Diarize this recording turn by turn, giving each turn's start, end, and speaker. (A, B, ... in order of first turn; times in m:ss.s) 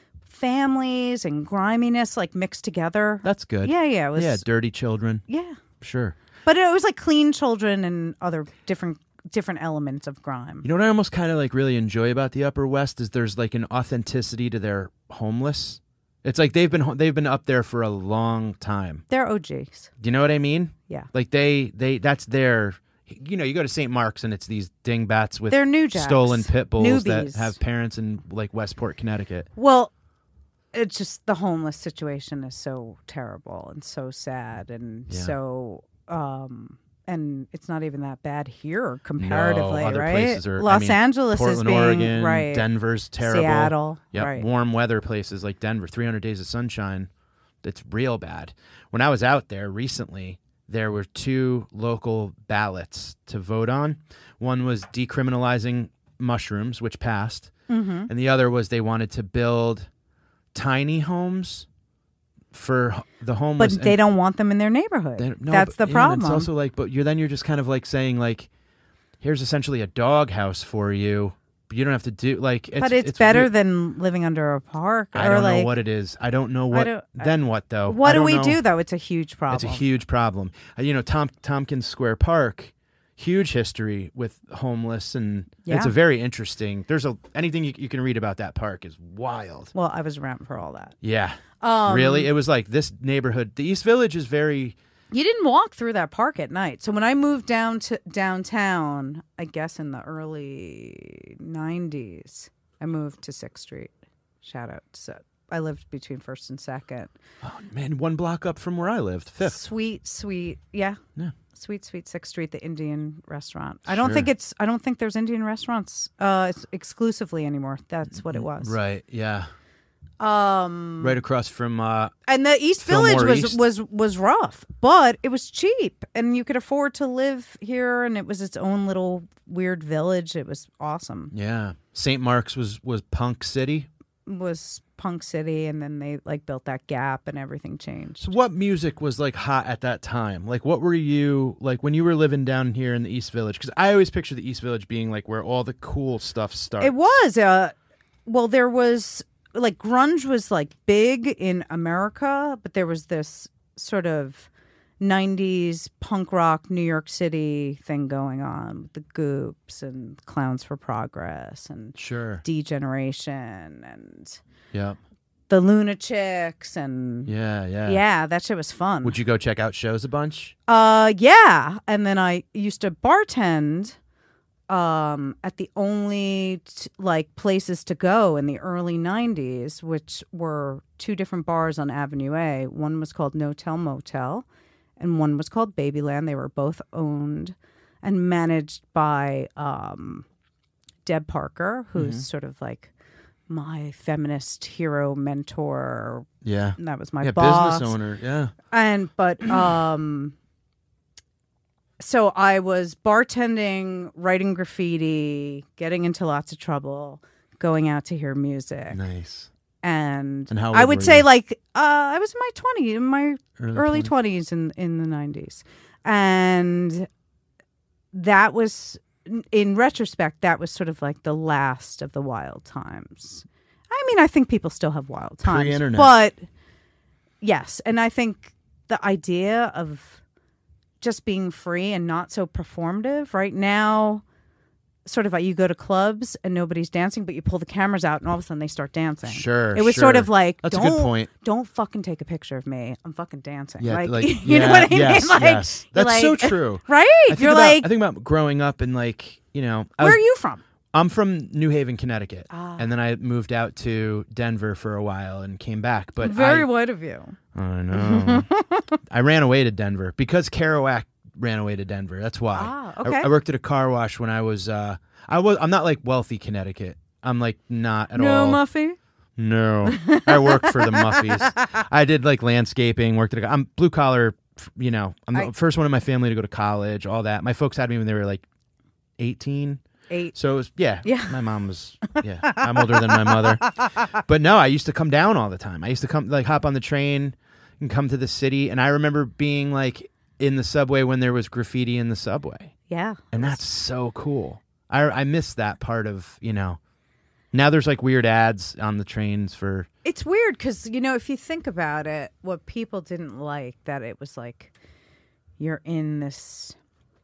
0:00.3-0:04.4 A
0:03.2-0:05.2 B
0:05.3-0:05.6 A
0:05.8-0:06.2 B
0:06.4-0:10.6 A
0:10.6-0:19.0 B
0:19.1-0:19.9 A
0:20.0-0:29.5 B
0:25.5-0:27.6 A
0:29.6-0:29.9 A
0:30.7-0:42.7 A
0:35.1-0:35.3 B
0:39.2-0:47.1 B
0:43.2-0:44.4 A
0:47.6-0:57.5 B
0:57.7-0:58.1 A
0:58.1-0:59.9 B
1:00.5-1:01.7 B
1:02.5-1:04.0 B
1:03.6-1:06.5 A
1:05.2-1:08.5 B
1:09.2-1:13.5 B
1:12.8-1:15.7 A
1:15.1-1:18.6 B
1:16.7-1:17.3 A
1:17.8-1:19.8 A
1:19.5-1:29.7 B
1:25.6-1:25.9 A
1:29.7-1:31.0 A
1:31.0-1:34.8 B
1:31.6-1:32.3 A
1:35.1-1:47.1 A
1:47.4-1:49.6 B
1:49.4-1:51.0 A
1:51.5-1:58.7 A
1:53.9-1:54.3 B
1:58.2-1:59.5 B
2:00.2-2:01.2 A
2:01.0-2:02.1 B
2:02.3-2:11.3 A
2:02.8-2:03.6 B
2:11.3-2:13.9 B
2:14.2-2:18.3 A
2:18.2-2:27.2 B
2:26.8-2:27.7 A
2:28.2-2:34.5 A
2:35.0-2:44.4 A
2:42.0-2:42.4 B
2:44.7-2:45.0 B
2:45.5-2:47.3 A
2:47.2-2:48.0 B
2:47.8-2:49.2 A
2:49.0-2:50.6 B
2:50.7-2:54.0 A
2:54.7-3:04.4 A
3:05.0-3:10.2 A
3:11.0-3:12.9 A
3:12.0-3:12.2 B
3:13.5-3:18.0 A
3:16.4-3:18.5 B
3:18.7-3:20.4 A
3:22.0-3:29.0 A
3:28.9-3:29.5 B
3:29.8-3:37.1 A
3:30.5-3:31.2 B
3:33.6-3:34.1 B
3:38.1-3:46.4 A
3:45.4-3:46.1 B
3:47.4-3:50.2 A
3:51.0-3:54.2 A
3:55.0-4:07.9 A
3:59.2-4:01.3 B
4:03.8-4:10.2 B
4:10.0-4:10.6 A
4:10.9-4:16.7 B
4:12.5-4:12.9 A
4:16.2-4:17.4 A
4:17.5-4:18.5 B
4:17.9-4:18.9 A
4:19.1-4:28.6 B
4:22.5-4:23.3 A
4:28.1-4:29.0 A
4:29.4-4:38.4 B
4:29.8-4:31.7 A
4:39.2-4:52.7 B
4:40.1-4:40.4 A
4:41.0-4:41.4 A
4:42.2-4:43.9 A
4:52.9-4:53.6 A
4:53.3-4:56.8 B
4:57.5-4:59.9 B
5:00.0-5:04.7 A
5:05.6-5:06.8 A